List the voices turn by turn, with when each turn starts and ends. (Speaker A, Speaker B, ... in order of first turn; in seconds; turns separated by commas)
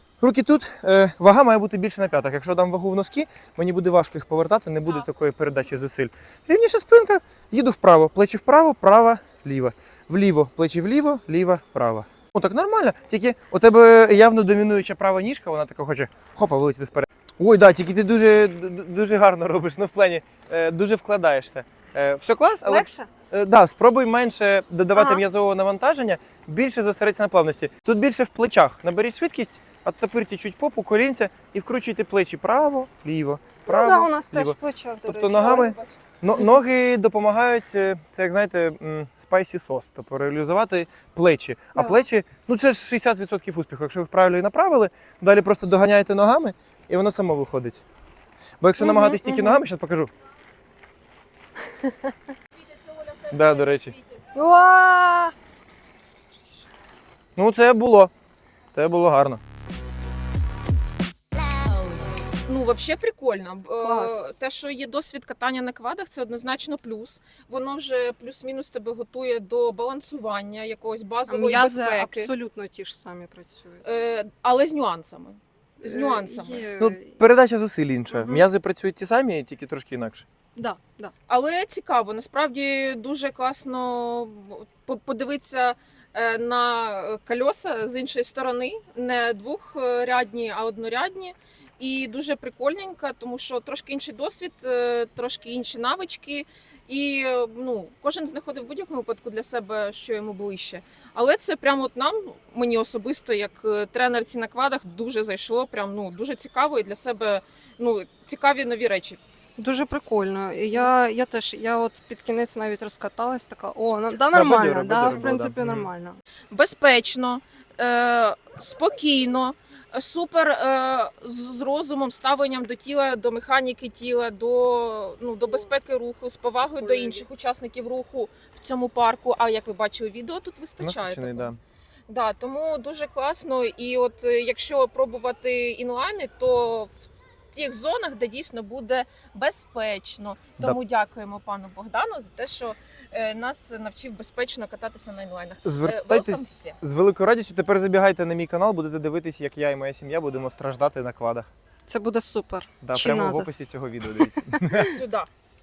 Speaker A: 0.2-47.8, Speaker B: 22.6-23.1, Speaker B: 24.9-25.2, Speaker B: 33.6-35.7, Speaker C: 35.3-36.0, Speaker A: 48.6-50.1, Speaker B: 48.8-49.6, Speaker B: 51.8-52.1, Speaker C: 52.9-53.4, Speaker A: 53.3-54.0, Speaker B: 54.3-55.3, Speaker A: 57.4-58.1, Speaker A: 58.7-59.4, Speaker C: 62.5-72.3, Speaker B: 63.8-64.4, Speaker B: 71.3-73.8, Speaker C: 73.8-76.7, Speaker B: 75.8-77.1, Speaker A: 76.8-80.2, Speaker B: 78.1-78.5, Speaker B: 80.5-81.1, Speaker C: 81.3-109.2, Speaker B: 109.6-116.2, Speaker A: 114.3-115.9, Speaker C: 116.5-131.5, Speaker A: 130.8-131.6, Speaker C: 132.1-136.9, Speaker C: 137.5-146.8, Speaker A: 145.6-151.5, Speaker B: 151.9-154.8, Speaker A: 152.8-155.0, Speaker C: 154.7-155.3